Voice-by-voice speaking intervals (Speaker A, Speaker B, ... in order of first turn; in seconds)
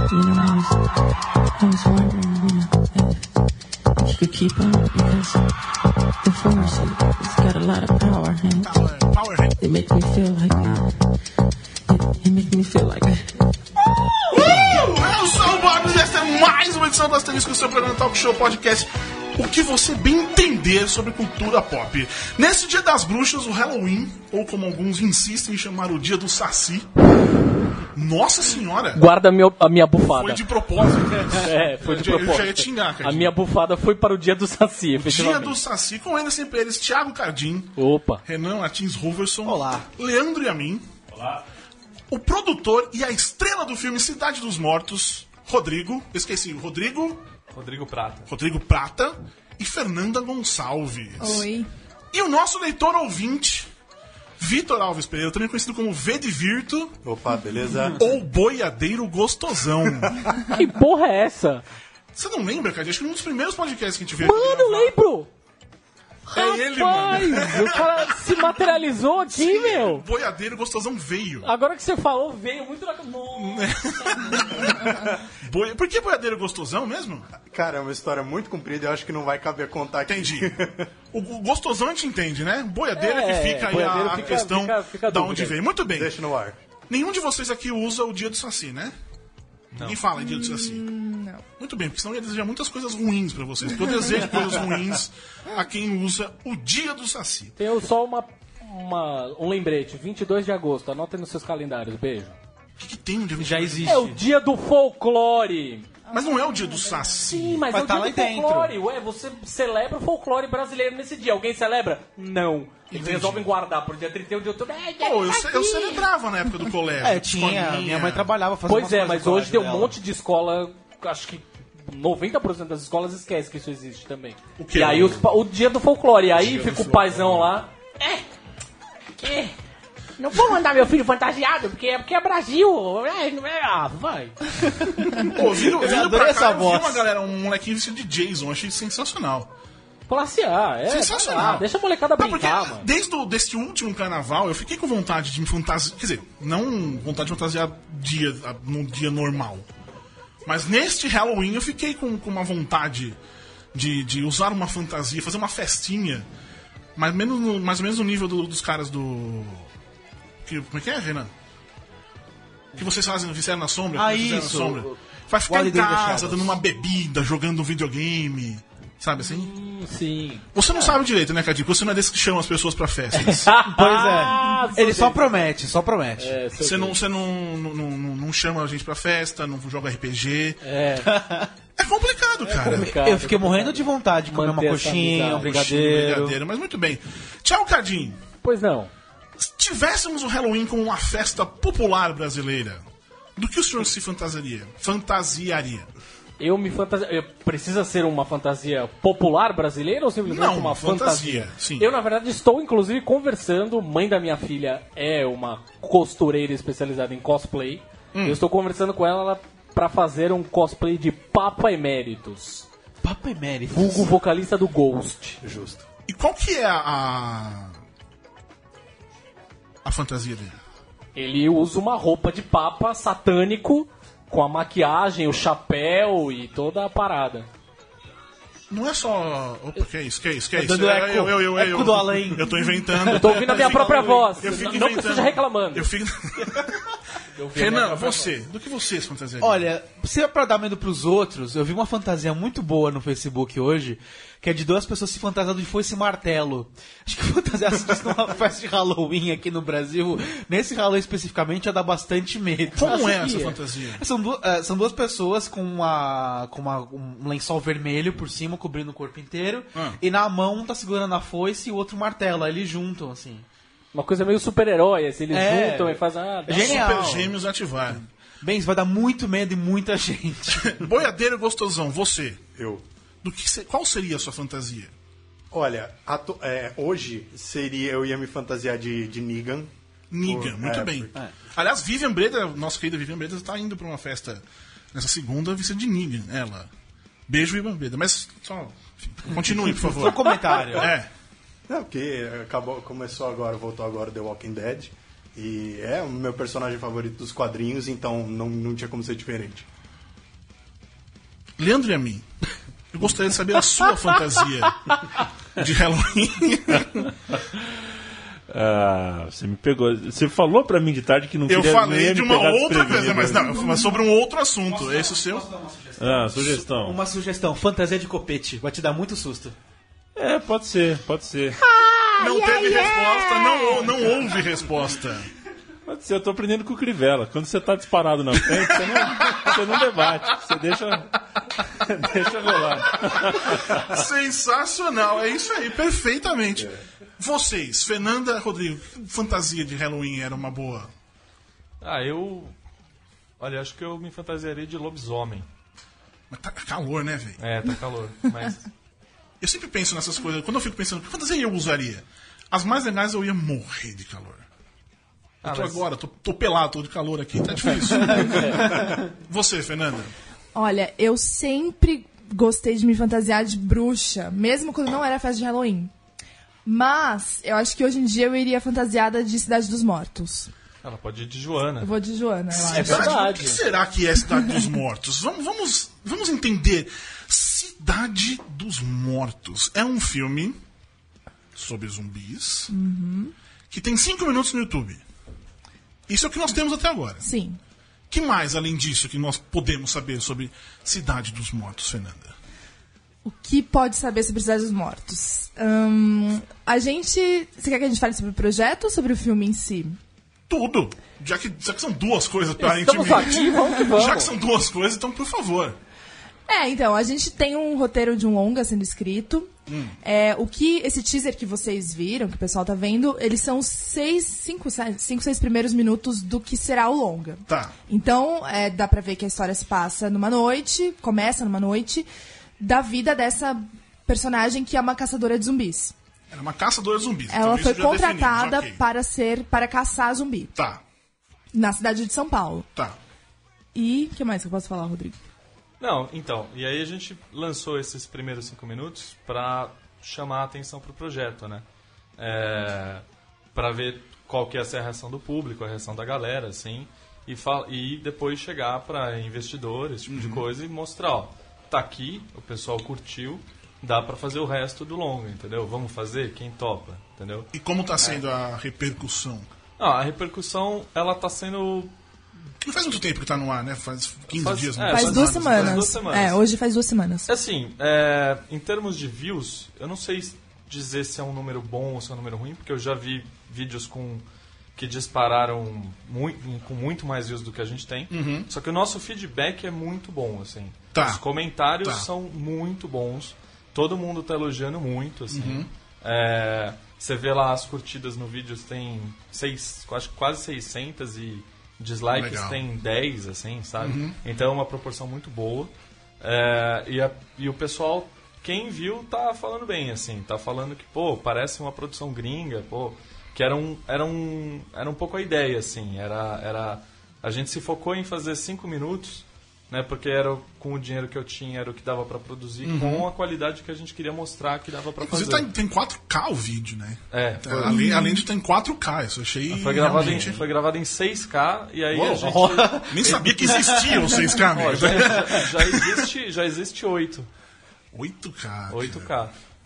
Speaker A: 0.1-0.9, 1.6-3.3, 4.0-5.5, 6.2-8.9, 9.6-11.0, 11.9-13.3
Speaker B: 8.6-9.6, 14.3-26.9, 27.8-29.0, 30.1-33.3, 35.0-40.9, 42.1-47.2, 48.3-51.5, 52.1-53.7, 54.4-57.0, 58.0-60.2, 62.1-65.0, 66.3-71.5, 73.3-77.3, 80.1-80.5, 81.1-86.1, 86.9-89.0, 89.7-90.8, 91.6-97.5, 102.8-104.1, 106.1-107.7, 112.9-113.5, 115.0-118.3, 124.6-125.3, 126.4-127.5, 135.2-139.5, 140.9-149.7, 150.4-153.2, 153.7-156.3, 157.0-159.7, 160.4-161.3, 162.7-169.5, 170.5-173.5, 176.6-180.6, 181.8-183.0, 185.3-188.2, 189.4-192.8, 193.4-195.9, 200.2-201.9, 208.1-208.4, 216.1-217.8, 219.8-220.6, 228.7-236.7, 237.5-239.7, 252.8-254.0, 259.8-260.0, 266.5-268.0, 270.6-272.4, 273.2-274.9, 280.1-286.7, 287.3-291.1, 301.6-302.3, 302.9-305.1, 305.6-307.1, 311.5-315.5, 322.2-325.3, 328.4-329.7, 332.9-340.9, 346.3-347.4, 349.4-354.5, 355.4-360.1, 372.5-380.6, 381.6-382.7, 383.7-385.0, 386.1-387.3, 388.1-392.4, 400.5-405.8, 409.7-409.9, 417.5-417.7, 426.3-428.8, 430.6-430.8, 450.1-450.4, 457.5-459.5, 462.6-465.9, 478.1-478.5, 480.9-481.2, 481.8-482.1, 485.3-485.7, 492.1-492.6, 493.8-494.2, 512.6-513.1, 515.0-520.5, 521.9-526.1, 527.9-529.1
Speaker C: 28.9-30.4, 31.1-35.6, 37.8-38.2, 60.5-61.6, 64.2-65.3, 66.3-70.0, 71.4-74.7, 83.0-85.6, 97.6-102.4, 103.8-105.9, 107.3-116.1, 118.7-128.2, 129.2-129.5, 130.2-134.7, 140.1-142.9, 169.2-170.9, 173.1-175.3, 176.2-177.0, 180.6-181.1, 182.4-185.8, 188.4-188.9, 196.4-212.7, 213.7-215.4, 221.2-227.5, 233.1-235.9, 237.3-238.3, 252.8-253.6, 263.9-266.9, 322.3-322.9, 358.2-358.6, 372.7-373.6, 402.6-404.3
Speaker D: 39.5-39.9, 103.4-104.2, 107.7-108.7, 117.0-120.0, 135.6-137.1, 163.9-166.6, 173.6-176.4, 181.1-181.5, 182.8-186.4, 213.0-214.2, 230.5-234.8, 239.4-253.1, 253.9-263.4, 265.3-267.4, 267.9-270.8, 289.8-290.9, 314.7-319.6, 522.2-523.9
Speaker E: 47.5-48.3, 89.7-90.0, 341.8-342.5, 343.4-345.5, 347.4-348.7, 355.4-355.9, 370.8-371.9, 435.8-441.6, 442.2-458.2, 459.8-461.9, 464.3-466.4, 467.3-474.2, 474.8-515.5, 517.1-517.9, 519.5-527.3, 528.7-529.3
Speaker F: 51.2-51.7, 90.2-91.4, 106.1-107.2, 322.3-322.8, 360.5-365.9, 366.6-370.5, 371.8-373.2, 374.4-374.6, 382.7-383.3, 387.2-387.6, 393.2-400.0, 403.4-403.8, 406.5-409.5, 410.0-422.1, 422.6-425.9, 427.3-430.5, 431.5-432.7, 433.7-435.2, 464.9-467.3, 517.7-518.2
Speaker G: 57.0-58.0, 77.4-80.9, 85.9-86.6, 215.4-215.8, 272.6-272.8, 275.5-279.7, 280.2-281.1, 291.7-299.7
Speaker H: 308.5-313.7, 316.0-317.0, 320.2-321.6, 325.9-331.1, 331.7-333.9